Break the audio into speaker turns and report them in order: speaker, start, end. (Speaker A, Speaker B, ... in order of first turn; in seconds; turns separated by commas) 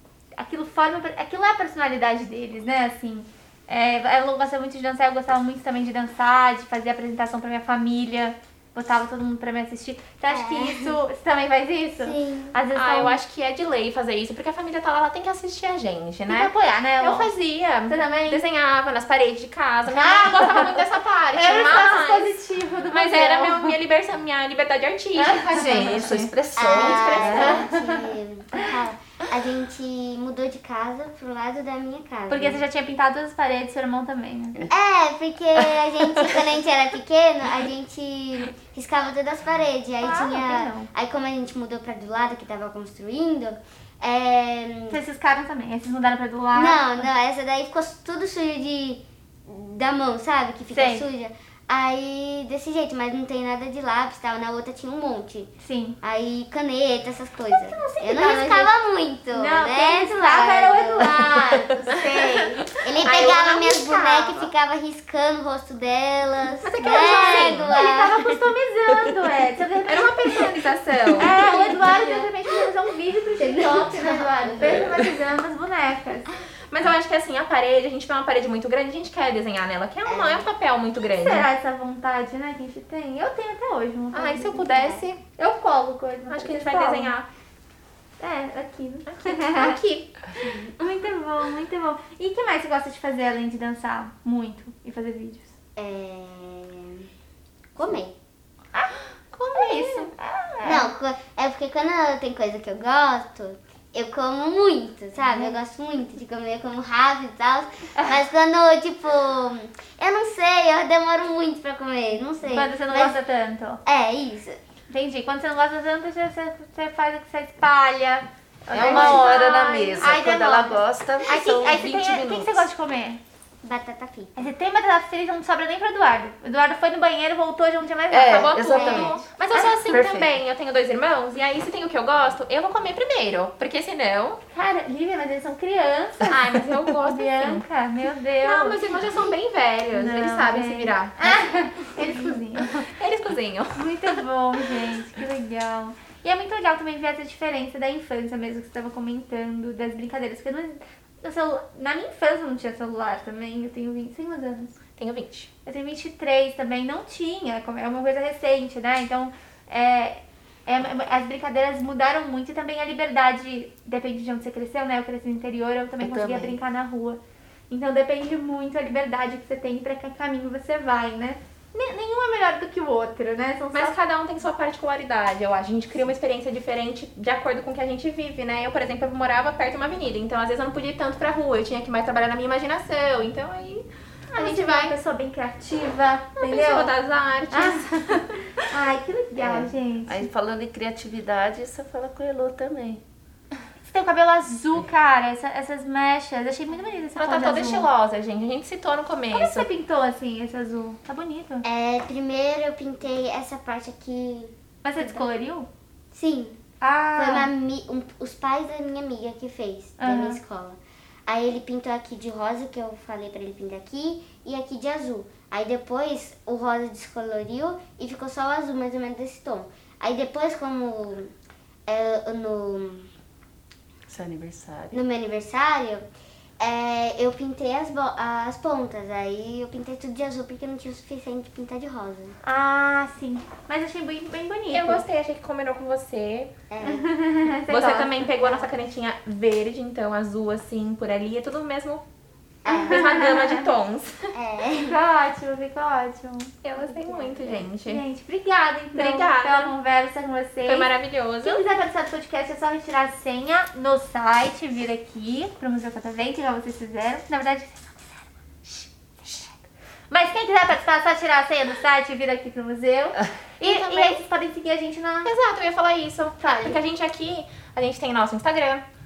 Speaker A: 0.4-13.2, Speaker B: 10.3-11.0, Speaker B: 12.0-12.6, Speaker C: 12.7-22.4, Speaker A: 16.3-17.3, Speaker A: 17.9-18.4, Speaker A: 19.9-23.8, Speaker C: 22.9-27.6, Speaker A: 25.1-26.1, Speaker D: 25.5-27.6, Speaker B: 26.6-32.6, Speaker A: 27.3-28.0, Speaker A: 32.3-34.6, Speaker B: 34.7-45.0, Speaker A: 40.0-40.9, Speaker A: 44.9-47.1, Speaker B: 46.5-68.3, Speaker A: 50.7-51.1, Speaker A: 55.6-56.0, Speaker A: 57.5-58.7, Speaker A: 59.3-64.5, Speaker C: 63.0-63.5, Speaker A: 66.6-70.3, Speaker C: 67.2-67.6, Speaker C: 69.8-72.3, Speaker A: 71.2-76.3, Speaker B: 71.3-72.2, Speaker B: 73.4-74.9, Speaker C: 76.7-81.5, Speaker B: 80.0-80.5, Speaker A: 81.1-87.1, Speaker C: 84.1-85.2, Speaker C: 86.3-87.3, Speaker A: 88.2-89.8, Speaker C: 89.1-90.1, Speaker A: 90.6-95.5, Speaker B: 95.8-97.1, Speaker B: 97.7-98.1, Speaker A: 98.7-100.9, Speaker C: 99.4-100.0, Speaker B: 100.6-113.2, Speaker A: 105.2-105.5, Speaker A: 112.4-113.8, Speaker B: 113.8-114.6, Speaker A: 114.9-123.2, Speaker D: 118.7-122.7, Speaker B: 118.7-119.4, Speaker B: 123.6-124.5, Speaker A: 124.3-129.8, Speaker D: 128.1-129.2, Speaker C: 128.3-134.4, Speaker B: 128.7-129.1, Speaker D: 129.8-130.4, Speaker A: 134.5-136.3, Speaker C: 136.3-137.6, Speaker A: 136.9-138.8, Speaker C: 138.4-141.4, Speaker A: 139.9-142.9, Speaker C: 142.0-143.9, Speaker A: 143.8-154.8, Speaker C: 155.0-155.5, Speaker A: 155.6-173.9, Speaker D: 166.0-166.6, Speaker C: 173.7-184.9, Speaker A: 184.3-186.9, Speaker C: 186.3-188.6, Speaker A: 187.5-187.9, Speaker A: 188.7-190.3, Speaker D: 189.3-193.0, Speaker A: 193.8-197.9, Speaker C: 197.2-199.7, Speaker A: 199.3-201.6, Speaker B: 201.6-205.2, Speaker A: 204.8-205.7, Speaker B: 206.1-206.6, Speaker A: 206.8-207.5, Speaker B: 207.2-221.3, Speaker A: 210.0-210.4, Speaker B: 221.9-223.1, Speaker D: 224.1-225.0, Speaker B: 224.9-226.0, Speaker B: 226.6-232.4, Speaker A: 232.4-235.0, Speaker C: 234.7-236.5, Speaker B: 236.7-237.1, Speaker A: 236.8-238.3, Speaker C: 237.7-242.0, Speaker B: 238.4-238.7, Speaker B: 242.6-243.1, Speaker A: 242.7-243.7, Speaker C: 242.7-244.1, Speaker B: 244.3-245.0, Speaker A: 244.8-250.9, Speaker C: 246.6-248.0, Speaker C: 248.9-249.7, Speaker C: 250.6-251.6, Speaker A: 251.4-259.5, Speaker A: 260.1-265.3, Speaker C: 263.6-264.2, Speaker C: 265.2-268.8, Speaker A: 266.4-266.8